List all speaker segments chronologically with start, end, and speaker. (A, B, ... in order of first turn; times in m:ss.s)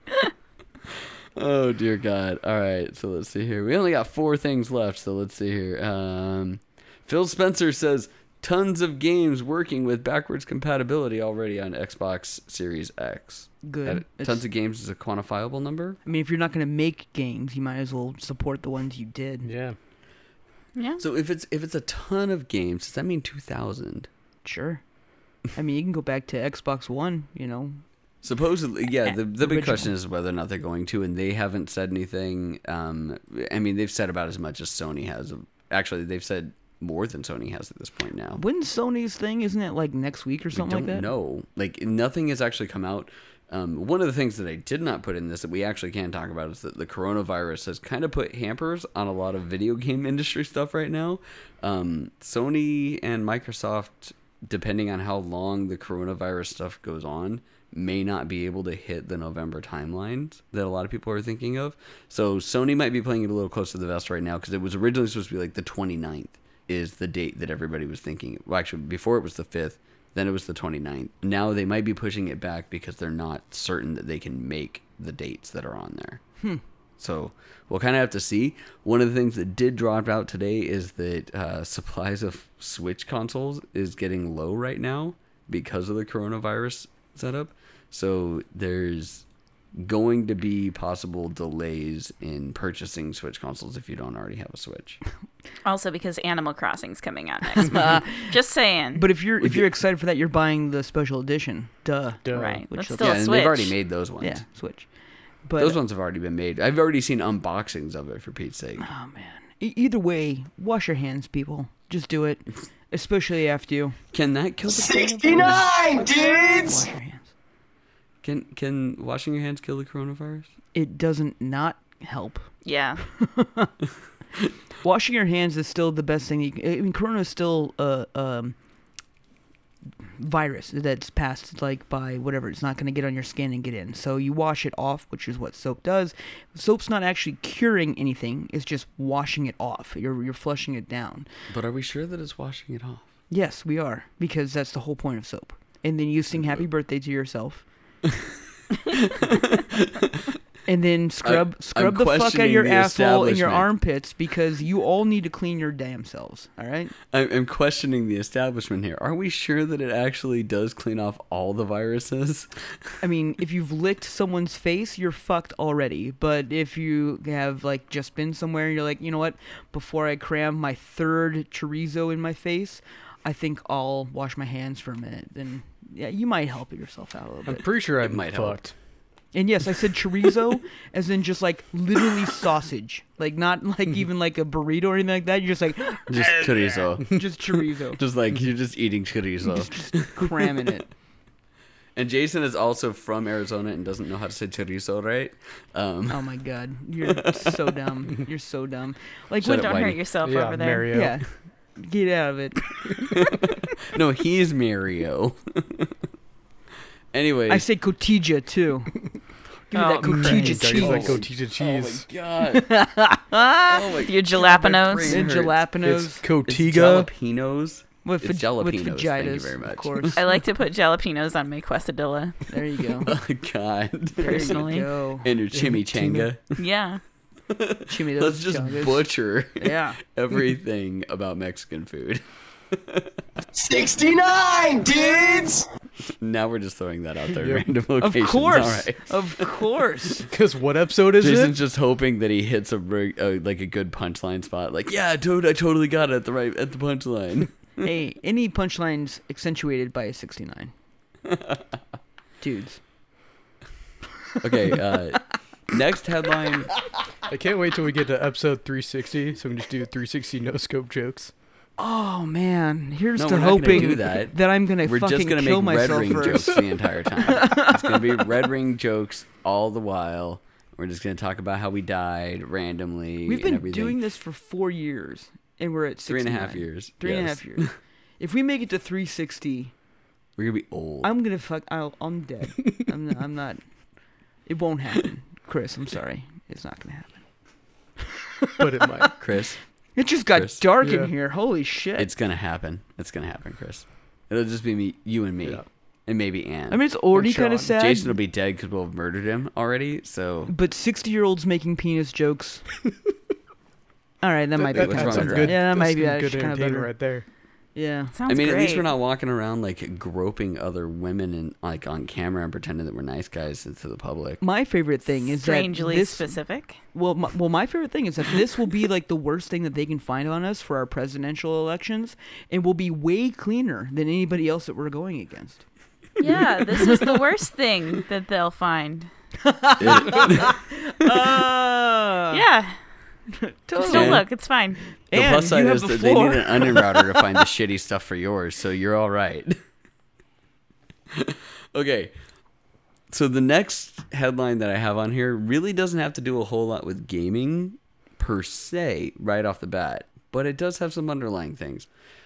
0:01.0-0:16.0 A
0:13.6-0:14.4 B
0:16.0-0:19.5 B
0:19.4-0:19.8 C
0:20.8-0:21.0 D
0:21.0-0:24.1 A
0:24.4-0:24.8 B
0:25.5-0:27.8 B
0:28.2-0:38.4 A
0:29.4-0:29.9 B
0:38.4-0:41.1 B
0:40.5-1:16.2 A
1:17.0-1:35.0 A
1:35.6-1:39.0 D
1:37.6-1:38.4 B
1:38.9-1:43.5 B
1:42.2-1:42.6 C
1:42.3-1:43.7 D
1:43.0-1:44.4 A
1:44.2-1:44.9 B
1:45.4-1:45.8 B
1:45.6-1:48.8 A
1:48.8-1:54.0 B
1:54.1-1:55.5 A
1:54.7-1:56.9 E
1:56.7-1:57.3 B
1:58.2-2:00.5 A
2:00.7-2:02.5 B
2:02.6-2:03.0 D
2:03.0-2:03.7 B
2:04.8-2:08.6 B
2:10.2-2:21.3 B
2:21.5-2:23.0 A
2:23.3-2:27.6 B
2:28.9-2:30.3 A
2:30.6-2:37.0 B
2:31.2-2:33.7 A
2:37.1-2:42.5 A
2:43.0-2:57.6 B
2:57.4-2:58.7 C
2:58.0-2:58.6 A
2:59.3-3:08.0 B
3:06.1-3:07.4 A
3:08.0-3:10.4 A
3:09.4-3:10.9 B
3:12.0-3:16.3 A
3:16.1-3:19.7 B
3:17.1-3:17.6 A
3:19.4-3:20.0 A
3:19.4-3:21.0 D
3:20.2-3:21.2 C
3:20.9-3:23.2 B
3:23.1-3:26.0 A
3:27.1-3:27.7 A
3:27.5-3:29.0 B
3:29.7-3:31.2 B
3:29.7-3:30.8 D
3:30.0-3:32.0 C
3:30.7-3:32.8 A
3:32.5-3:34.0 B
3:33.7-3:35.7 A
3:34.0-3:35.3 D
3:35.0-3:36.2 B
3:35.8-3:37.1 C
3:36.4-3:40.2 A
3:38.0-3:40.2 B
3:40.1-3:42.5 D
3:42.5-3:43.2 B
3:43.0-3:44.7 A
3:44.2-3:44.9 D
3:44.2-3:45.3 B
3:45.2-3:46.6 A
3:45.5-3:46.3 C
3:46.6-3:47.0 D
3:47.5-3:53.1 A
3:47.9-3:50.0 B
3:53.5-3:55.6 E
3:56.2-3:59.5 A
3:57.4-3:57.6 C
3:58.0-4:00.3 B
4:00.2-4:01.5 C
4:01.1-4:07.5 A
4:07.8-4:10.7 B
4:11.2-4:11.8 A
4:12.4-4:12.8 B
4:14.4-4:16.7 A
4:17.3-4:21.3 C
4:21.8-4:26.6 B
4:23.2-4:34.0 A
4:27.2-4:28.0 B
4:33.2-4:39.7 B
4:36.1-4:37.7 A
4:40.4-4:41.1 A
4:41.0-4:43.6 B
4:44.4-4:47.2 B
4:48.2-4:49.2 B
4:48.6-4:49.1 C
4:49.2-4:49.6 A
4:49.9-4:52.1 B
4:50.3-4:50.6 A
4:50.8-4:51.1 C
4:52.0-5:00.5 A
4:56.7-4:58.2 B
4:57.2-4:57.6 C
5:00.5-5:02.6 B
5:04.2-5:06.9 B
5:04.6-5:07.2 C
5:04.7-5:05.6 A
5:07.7-5:08.1 B
5:08.1-5:08.9 D
5:08.3-5:14.4 A
5:14.4-5:16.4 B
5:15.3-5:16.8 D
5:16.9-5:25.6 B
5:26.2-5:29.1 D
5:26.6-5:27.2 B
5:29.4-5:32.4 B
5:29.8-5:30.6 A
5:32.3-5:32.8 D
5:33.3-5:34.2 B
5:33.8-5:34.8 D
5:33.9-5:34.2 A
5:35.1-5:37.4 B
5:35.1-5:39.6 A
5:41.1-5:42.1 A
5:43.1-5:51.9 A